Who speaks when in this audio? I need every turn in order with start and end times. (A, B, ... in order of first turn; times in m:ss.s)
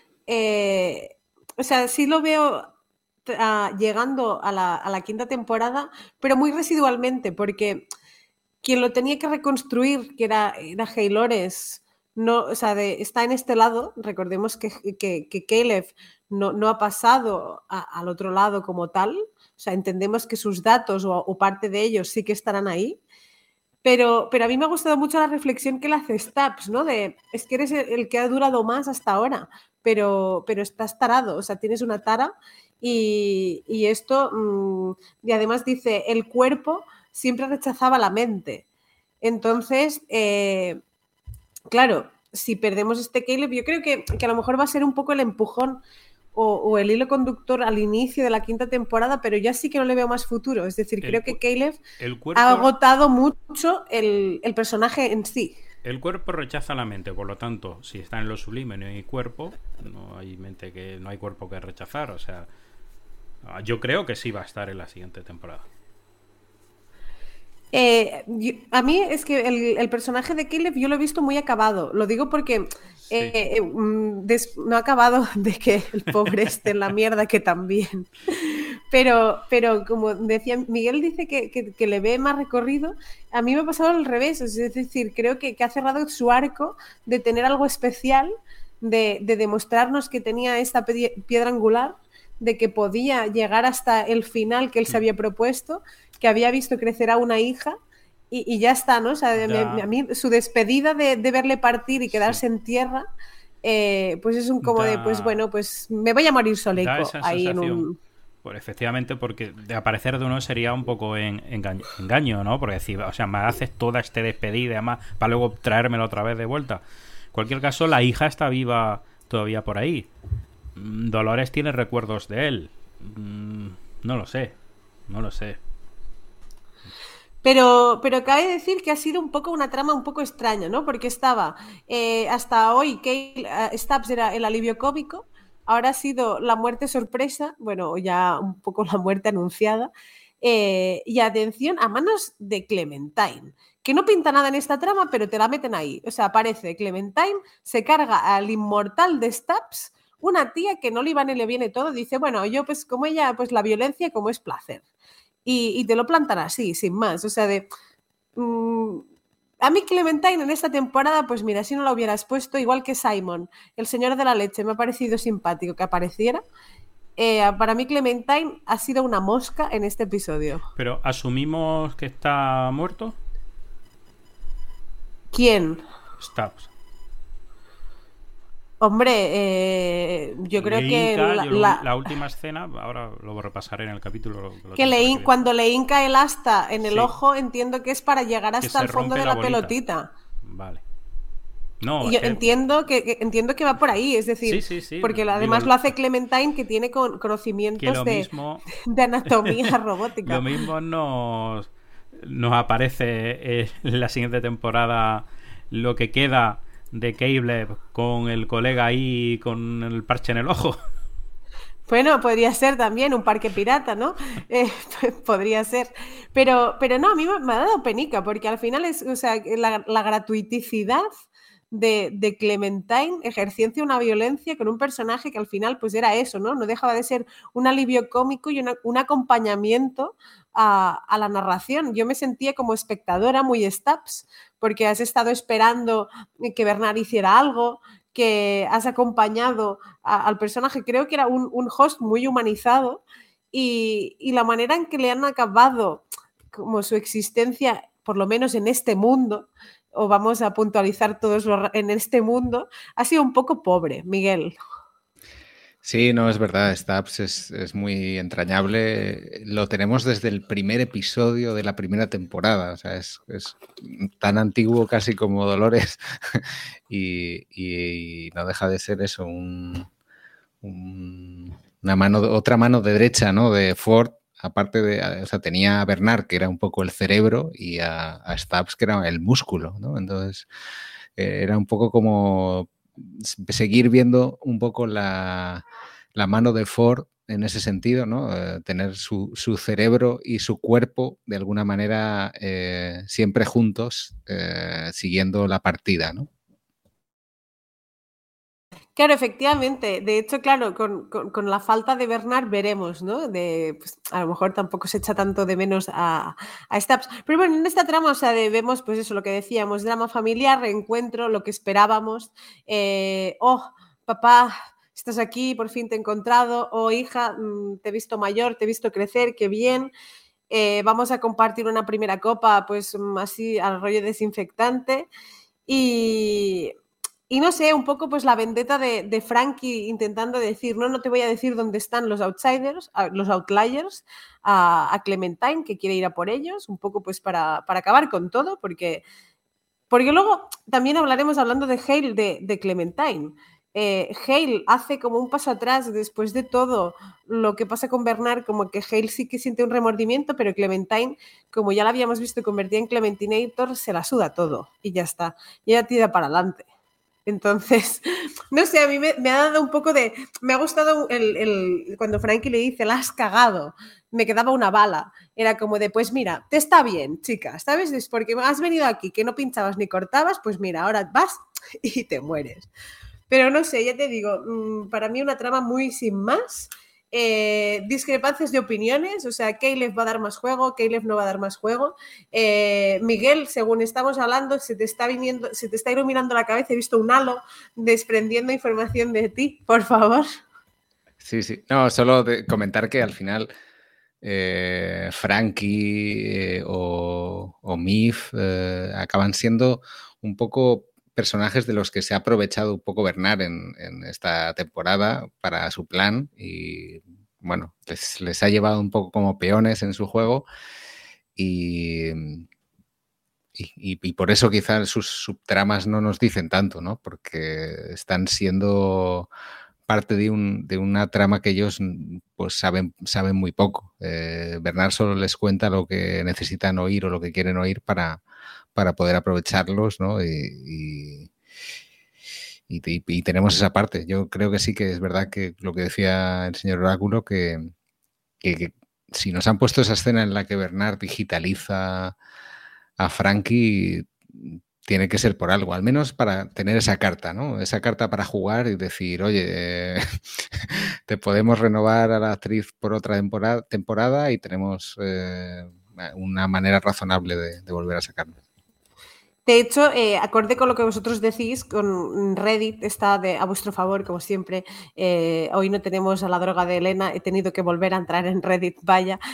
0:00.3-0:02.7 A
0:03.3-0:07.8 A
0:08.6-0:23.0 A
0:23.8-0:38.6 A
0:39.2-0:40.8 A
0:41.7-0:45.8 A
0:46.4-0:51.8 A
0:51.0-0:51.4 B
0:52.0-0:52.7 B
0:52.4-0:55.6 A
0:55.8-1:02.5 B
1:03.4-1:05.6 B
1:07.7-1:37.8 A
1:13.1-1:13.4 B
1:38.3-1:43.1 A
1:39.4-1:39.9 B
1:42.1-1:42.4 B
1:43.6-1:48.0 A
1:44.6-1:45.4 B
1:46.8-1:47.9 B
1:48.4-1:56.8 B
1:57.3-2:00.1 B
2:00.8-2:04.6 B
2:05.1-2:05.6 B
2:07.4-2:19.9 A
2:20.4-2:34.8 A
2:35.4-2:37.7 A
2:38.4-2:39.0 A
2:39.6-2:46.4 A
2:47.2-2:50.6 A
2:50.8-2:53.2 B
2:55.3-2:55.8 A
2:56.2-2:56.7 B
2:58.8-3:01.8 A
3:00.6-3:05.4 B
3:04.8-3:10.1 A
3:06.8-3:07.1 B
3:08.6-3:09.8 B
3:10.5-3:10.8 B
3:11.8-3:12.6 B
3:12.0-3:20.4 A
3:14.4-3:15.9 B
3:17.8-3:18.7 B
3:19.3-3:19.7 B
3:20.3-3:30.8 B
3:31.9-3:41.1 A
3:41.7-4:14.6 A
4:15.8-4:29.9 C
4:30.6-4:40.5 C
4:41.2-4:45.6 C
4:46.2-4:56.3 C
4:59.0-5:19.9 A
5:20.5-5:25.1 A
5:25.7-5:26.7 A
5:27.3-5:39.0 A
5:39.9-5:56.7 A
5:57.3-6:12.7 A
6:13.3-6:30.3 A
6:31.2-6:33.5 C
6:34.2-6:50.5 C
6:51.4-6:52.5 C
6:53.6-6:59.3 C
6:59.9-7:08.2 C
7:08.8-7:11.3 C
7:12.7-7:17.7 C
7:18.4-7:22.2 C
7:23.0-7:38.4 C
7:39.5-7:49.2 A